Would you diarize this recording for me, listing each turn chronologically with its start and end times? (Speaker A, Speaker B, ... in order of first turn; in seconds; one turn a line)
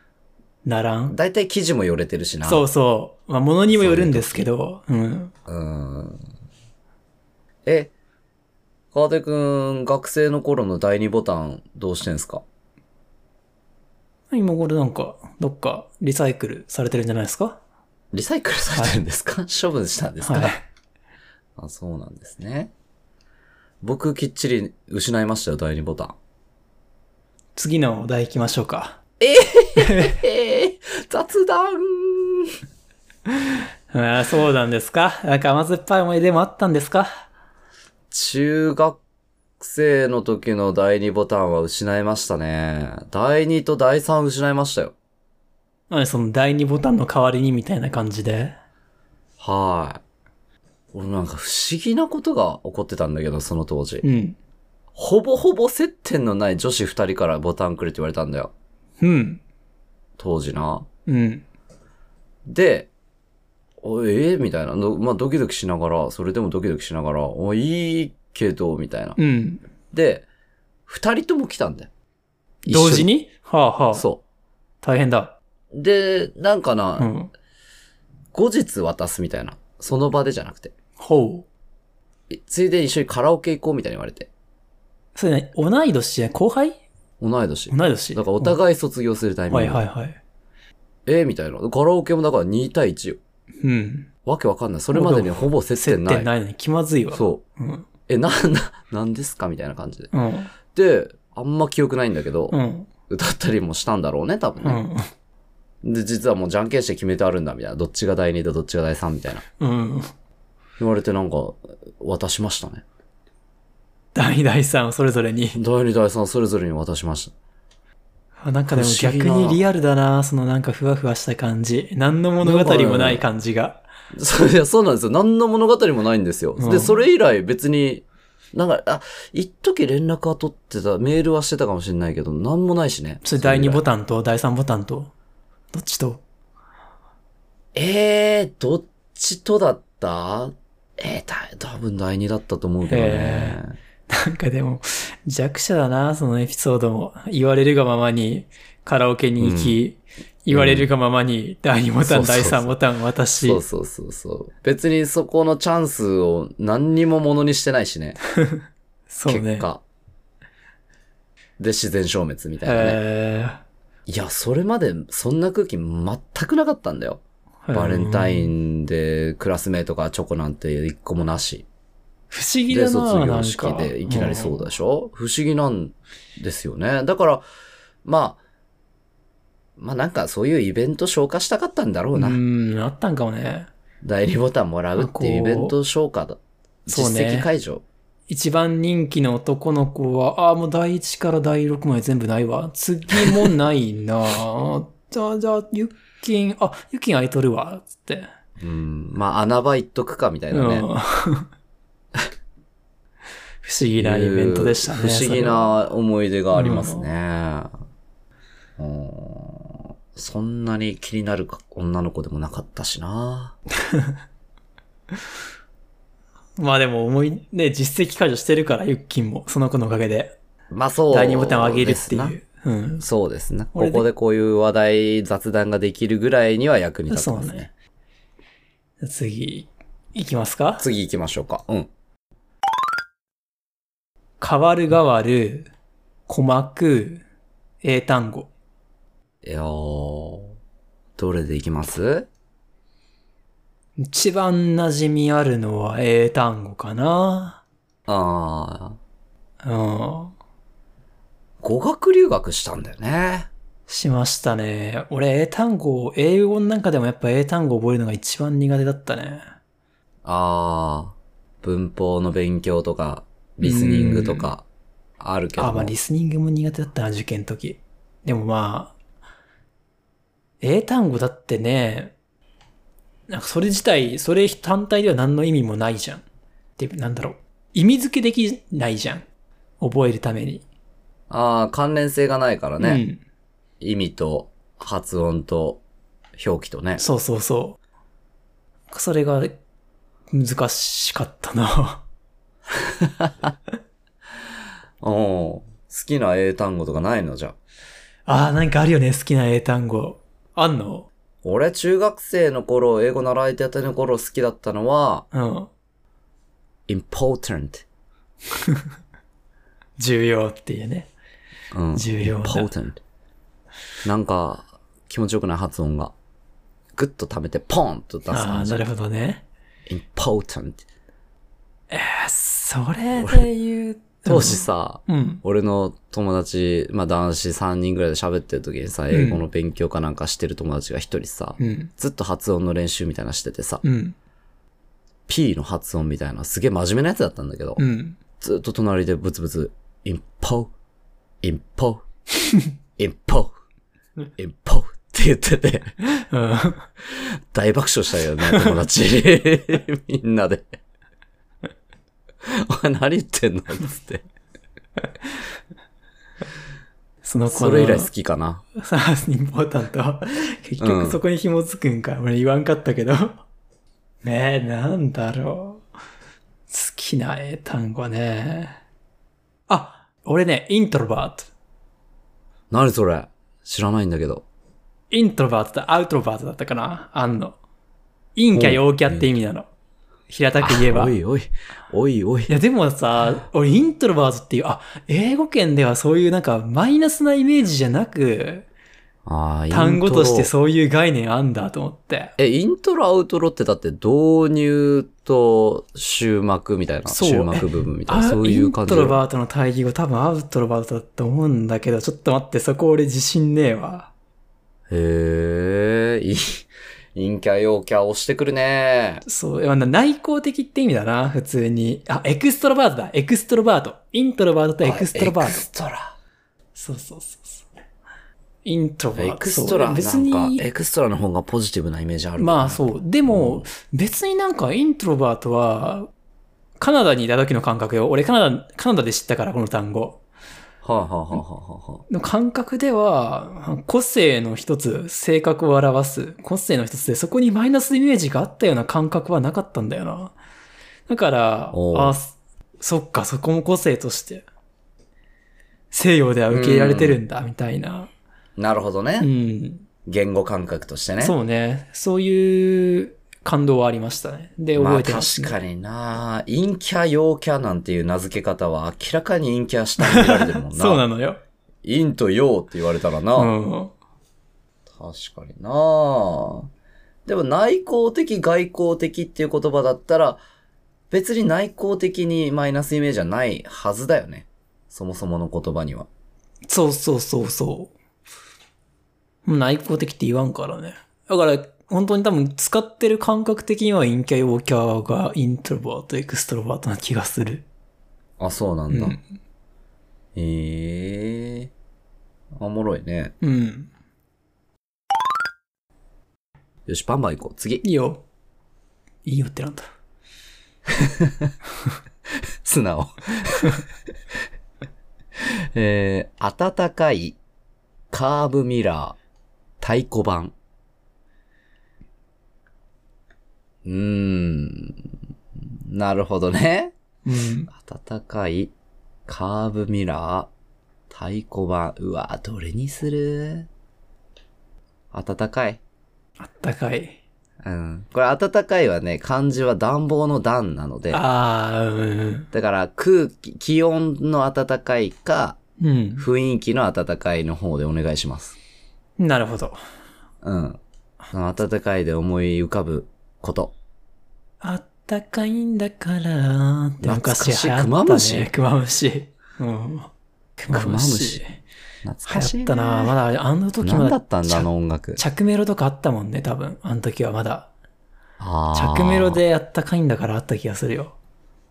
Speaker A: 0.6-1.2
Speaker B: 1.1-2.6
Speaker A: 2.4-5.3
Speaker B: 3.7-4.5
Speaker B: 5.5-6.2
Speaker B: 7.6-7.9
Speaker B: 8.9-12.4
Speaker A: 14.3-17.6
Speaker B: 18.1-20.6
Speaker A: 18.7-19.0
Speaker A: 20.2-20.6
Speaker B: 21.6-22.7
Speaker B: 23.8-26.1
Speaker A: 27.6-29.0
Speaker B: 29.2-32.5
Speaker A: 29.8-30.1
Speaker A: 33.5-37.1
Speaker B: 38.1-39.0
Speaker B: 39.6-44.9
Speaker A: 45.9-48.5
Speaker B: 49.4-50.0
Speaker B: 50.9-54.0
Speaker A: 54.0-54.4
Speaker B: 54.9-58.5
Speaker A: 59.0-59.4
Speaker B: 60.2-60.9
Speaker A: 61.1-61.4
Speaker B: 62.5-62.9
Speaker B: 63.8-69.2
Speaker A: 69.2-69.6
Speaker B: 69.9-70.2
Speaker B: 70.9-71.9
Speaker A: 72.6-74.0
Speaker B: 72.7-73.1
Speaker B: 73.9-74.2
Speaker A: 74.8-75.3
Speaker B: 75.7-77.1
Speaker A: 77.0-77.3
Speaker B: 78.3-80.7
Speaker A: 81.0-81.5
Speaker B: 82.3-84.3
Speaker A: 85.1-86.8
Speaker B: 87.2-89.8
Speaker A: 87.7-88.5
Speaker A: 89.5-90.2
Speaker B: 91.0-93.2
Speaker A: 93.6-94.1
Speaker B: 94.2-96.3
Speaker A: 94.9-97.9
Speaker B: 97.1-97.4
Speaker B: 98.1-100.1
Speaker A: 100.1-100.5
Speaker B: 100.7-102.5
Speaker A: 102.5-102.9
Speaker B: 103.1-104.8
Speaker A: 104.6-105.1
Speaker B: 105.8-109.4
Speaker A: 109.6-110.1
Speaker B: 110.8-112.8
Speaker A: 114.1-115.6
Speaker B: 115.5-117.3
Speaker A: 118.4-123.8
Speaker B: 118.7-119.6
Speaker B: 122.4-123.3
Speaker B: 124.1-133.8
Speaker A: 126.6-127.0
Speaker A: 133.2-135.1
Speaker A: 135.7-136.2
Speaker B: 137.7-143.7
Speaker A: 142.8-153.6
Speaker B: 149.4-149.8
Speaker B: 150.5-150.9
Speaker B: 152.0-152.8
Speaker B: 153.4-158.2
Speaker A: 158.3-159.7
Speaker B: 159.3-159.8
Speaker B: 161.6-163.0
Speaker A: 162.6-163.6
Speaker B: 164.1-167.2
Speaker A: 167.6-168.5
Speaker B: 167.7-171.7
Speaker A: 172.3-174.7
Speaker B: 172.7-177.4
Speaker B: 178.0-178.4
Speaker B: 179.8-182.4
Speaker A: 182.1-183.7
Speaker B: 184.0-187.8
Speaker A: 184.9-185.8
Speaker A: 186.9-187.5
Speaker A: 188.3-198.3
Speaker B: 193.1-193.5
Speaker B: 198.6-200.9
Speaker A: 200.5-201.5
Speaker A: 203.6-205.7
Speaker B: 204.0-207.7
Speaker A: 206.5-207.1
Speaker B: 208.8-213.6
Speaker A: 213.9-214.2
Speaker A: 216.6-220.3
Speaker B: 220.7-222.4
Speaker A: 221.1-223.1
Speaker B: 223.0-227.7
Speaker A: 223.7-224.1
Speaker A: 227.1-227.7
Speaker A: 229.0-230.9
Speaker B: 230.8-231.9
Speaker A: 234.4-235.7
Speaker A: 236.3-237.2
Speaker A: 237.8-238.5
Speaker B: 239.4-240.5
Speaker B: 241.2-242.3
Speaker A: 244.0-247.6
Speaker B: 248.1-249.0
Speaker A: 249.6-250.3
Speaker B: 251.6-253.5
Speaker A: 253.9-259.4
Speaker B: 260.2-264.6
Speaker A: 263.6-264.5
Speaker B: 265.2-265.9
Speaker A: 265.6-268.9
Speaker A: 270.6-272.1
Speaker A: 273.3-276.2
Speaker A: 276.8-279.2
Speaker A: 279.8-280.6
Speaker B: 281.3-283.0
Speaker A: 282.8-283.2
Speaker B: 283.8-285.8
Speaker B: 286.4-287.0
Speaker A: 287.0-287.8
Speaker A: 288.9-289.5
Speaker A: 290.3-292.0
Speaker B: 292.7-293.5
Speaker B: 295.0-297.5
Speaker A: 298.3-301.1
Speaker B: 301.4-305.2
Speaker A: 305.3-305.7
Speaker B: 306.9-307.8
Speaker A: 308.5-308.8
Speaker A: 310.0-311.1
Speaker B: 311.7-313.0
Speaker A: 311.9-312.7
Speaker B: 314.0-316.1
Speaker B: 316.9-318.8
Speaker A: 318.3-319.4
Speaker B: 319.9-320.8
Speaker A: 321.9-325.4
Speaker B: 323.2-323.5
Speaker B: 324.2-333.8
Speaker A: 329.1-329.4
Speaker A: 331.6-331.9
Speaker A: 333.8-334.1
Speaker B: 335.3-337.8
Speaker A: 337.8-338.2
Speaker B: 338.4-340.7
Speaker B: 341.4-342.0
Speaker B: 343.0-343.5
Speaker B: 344.4-345.9
Speaker A: 346.1-346.9
Speaker B: 347.0-350.7
Speaker A: 348.5-348.7
Speaker B: 352.4-354.2
Speaker A: 357.2-358.1
Speaker B: 357.5-358.6
Speaker A: 358.8-363.4
Speaker B: 360.8-361.2
Speaker A: 364.2-365.8
Speaker A: 366.7-368.8
Speaker A: 369.7-371.5
Speaker B: 372.7-374.4
Speaker A: 375.1-377.6
Speaker A: 378.4-379.7
Speaker B: 378.5-379.3
Speaker A: 380.3-381.1
Speaker B: 380.6-382.5
Speaker A: 382.5-388.7
Speaker B: 389.2-390.5
Speaker A: 389.7-392.3
Speaker B: 392.4-399.2
Speaker A: 397.1-404.1
Speaker B: 404.9-409.2
Speaker A: 409.2-415.6
Speaker B: 414.8-416.1
Speaker A: 416.7-417.6
Speaker A: 418.6-420.6
Speaker B: 419.1-423.7
Speaker A: 422.4-426.1
Speaker A: 426.8-430.2
Speaker B: 430.8-432.0
Speaker A: 432.1-440.3
Speaker A: 441.1-444.4
Speaker B: 441.7-442.2
Speaker A: 445.9-448.1
Speaker B: 446.5-447.2
Speaker B: 448.6-449.3
Speaker A: 449.2-449.8
Speaker B: 450.1-451.3
Speaker A: 451.2-455.6
Speaker B: 454.8-461.0
Speaker A: 460.0-461.4
Speaker B: 461.8-463.5
Speaker A: 463.4-463.9
Speaker B: 464.9-466.7
Speaker B: 467.2-470.4
Speaker B: 471.1-476.1
Speaker A: 476.7-477.9
Speaker A: 479.4-487.6
Speaker B: 488.4-489.2
Speaker A: 488.9-489.2
Speaker B: 490.3-491.7
Speaker B: 492.6-493.3
Speaker A: 493.4-493.9
Speaker B: 496.9-497.8
Speaker A: 497.8-498.2
Speaker A: 499.2-499.9
Speaker B: 500.9-501.5
Speaker B: 502.6-503.8
Speaker B: 505.4-507.4
Speaker B: 508.1-509.2
Speaker B: 509.8-510.5
Speaker B: 513.8-516.9
Speaker A: 517.2-517.7
Speaker B: 517.7-518.7
Speaker B: 519.3-520.5
Speaker B: 521.1-523.7
Speaker B: 525.1-525.8
Speaker A: 526.4-527.2
Speaker B: 527.6-531.2
Speaker A: 531.1-532.5
Speaker B: 532.5-535.6
Speaker A: 535.8-536.2
Speaker B: 536.2-538.5
Speaker A: 539.2-539.8
Speaker B: 540.4-540.8
Speaker B: 541.3-543.7
Speaker A: 544.6-551.6
Speaker B: 547.0-548.5
Speaker B: 550.7-551.4
Speaker B: 552.0-553.1
Speaker A: 552.2-557.7
Speaker B: 553.8-555.2
Speaker B: 558.4-559.4
Speaker A: 558.7-561.1